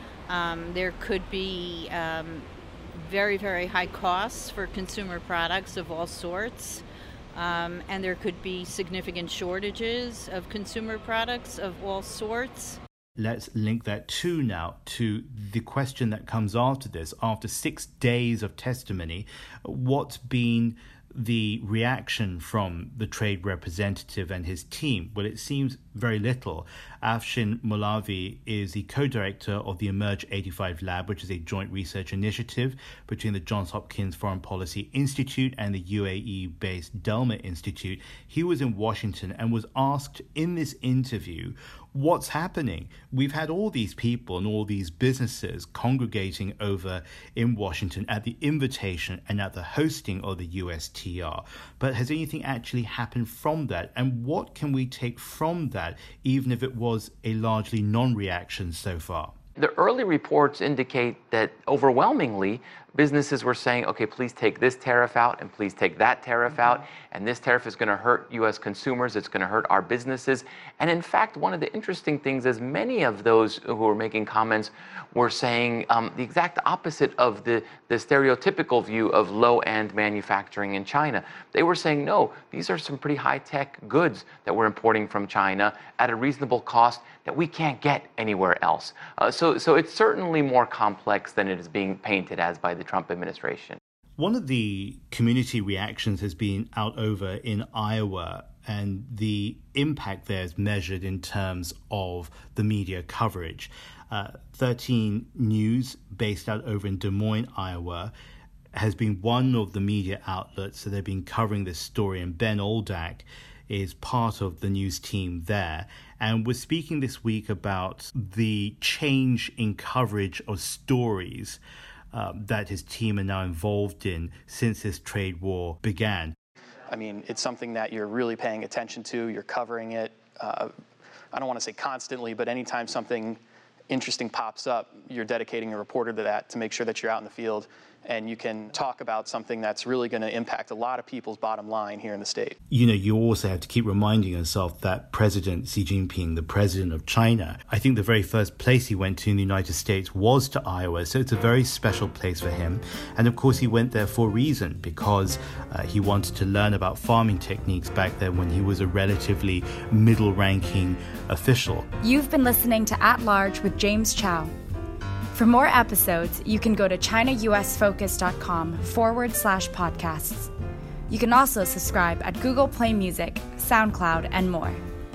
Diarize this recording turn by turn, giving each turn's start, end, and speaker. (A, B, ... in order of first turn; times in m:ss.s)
0:00.3-0:12.8 A
0:13.2-0:59.3 B
0:59.6-1:33.8 C
1:34.2-1:48.1 B
1:48.8-2:01.6 B
2:02.1-2:06.3 B
2:06.9-2:10.7 D
2:11.3-2:13.4 D
2:13.9-2:22.5 D
2:22.7-2:41.9 B
2:42.0-2:44.5 E
2:45.3-2:50.5 E
2:51.1-2:54.8 E